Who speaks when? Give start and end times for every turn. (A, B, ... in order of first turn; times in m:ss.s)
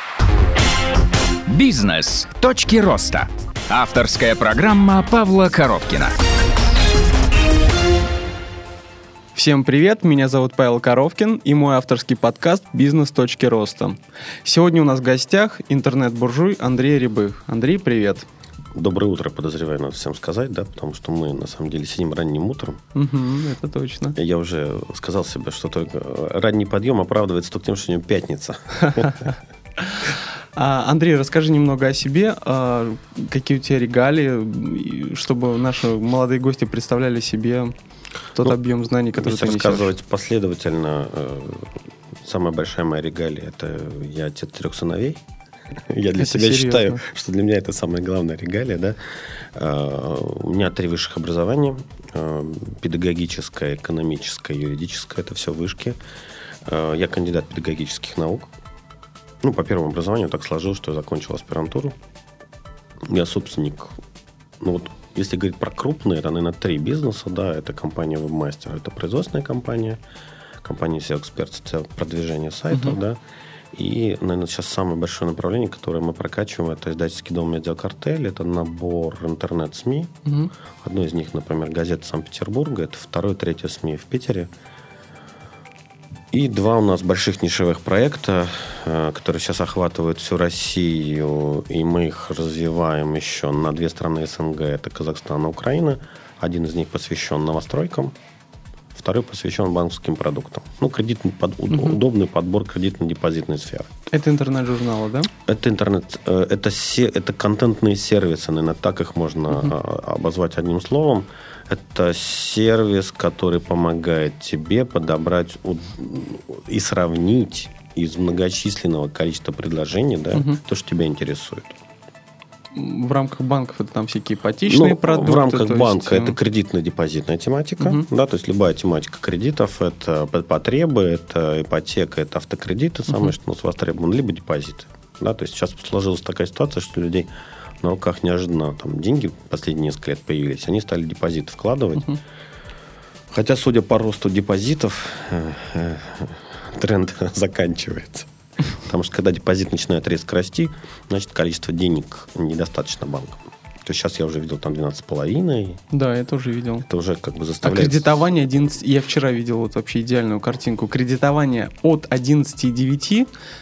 0:01.5-0:06.2 A
0:09.4-0:18.3 B
0:18.8-0:22.8 C
0:23.0-0:24.2 B
0:24.2-0:29.3 C
0:29.8-0:37.7 B
0:38.4-0:39.9 B
0:39.1-0:45.2 C
0:45.9-0:49.0 C
0:46.2-0:47.0 B
0:49.5-0:56.0 C
0:56.7-0:58.5 C
0:59.4-1:02.0 C
1:03.1-1:03.9 C
1:04.6-1:10.0 C
1:10.6-1:13.2 C
1:13.7-1:20.1 C
1:20.2-1:20.5 B
1:20.8-1:24.5 C
1:26.3-1:38.2 C
1:38.9-1:43.9 C
1:41.7-1:42.0 B
1:44.1-1:45.3 B
1:45.4-2:01.8 C
2:00.3-2:00.6 B
2:02.7-2:06.4 B
2:04.7-2:17.3 C
2:07.8-2:08.0 B
2:17.8-2:22.2 C
2:23.3-2:35.8 C
2:35.9-2:36.9 B
2:36.9-2:38.1 C
2:37.6-2:43.3 B